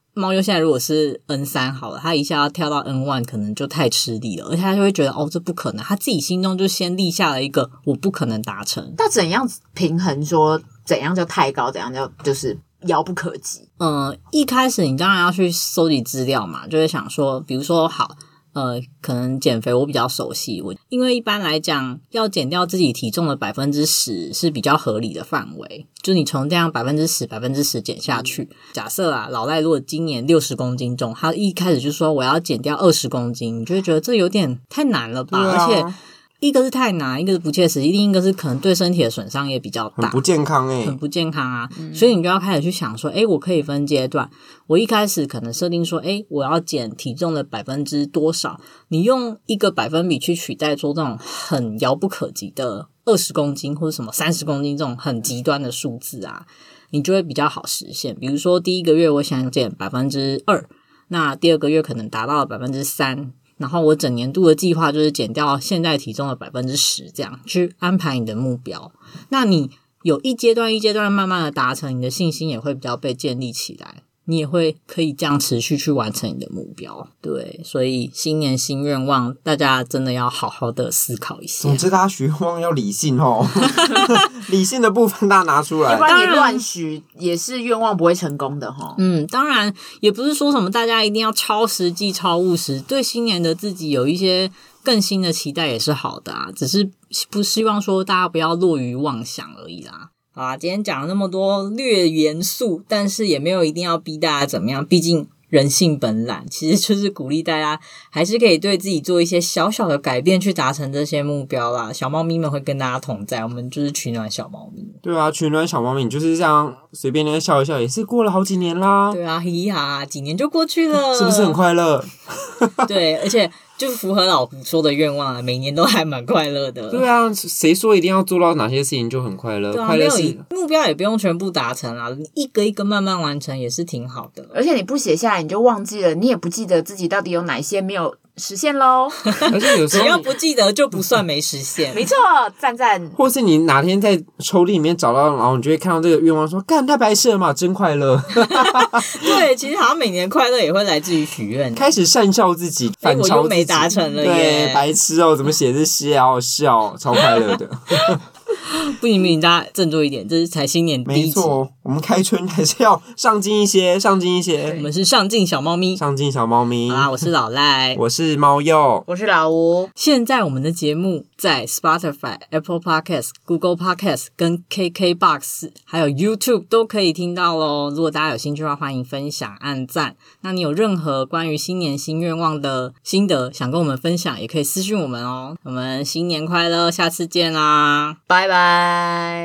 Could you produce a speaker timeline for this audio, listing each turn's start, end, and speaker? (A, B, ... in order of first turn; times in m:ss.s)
0:00.1-0:09.0 A
0:09.0-0:13.6 B
0:13.8-0:40.2 A
0:35.3-0:35.9 C
0:40.0-0:41.0 C
0:40.8-1:21.8 A
1:21.6-1:26.1 C
1:23.8-1:24.2 A
1:25.9-1:29.0 B
1:26.1-1:26.6 A
1:29.0-1:55.0 A
1:55.0-1:59.2 C
1:59.1-2:01.6 A
2:00.9-2:02.9 C
2:02.8-2:07.0 A
2:06.9-2:10.4 C
2:09.7-2:14.5 A
2:14.5-2:19.4 B
2:19.3-2:22.0 A
2:19.5-2:20.3 C
2:21.9-2:23.2 B
2:23.2-2:29.3 C
2:28.5-2:31.9 A
2:31.7-2:38.2 C
2:33.0-2:34.9 A
2:38.6-2:41.6 A
2:41.0-2:44.8 C
2:44.8-2:46.0 A
2:46.0-2:47.2 C
2:46.9-2:48.0 A
2:48.0-2:49.0 C
2:49.1-2:49.9 B
2:50.0-3:09.3 A
3:08.4-3:09.3 B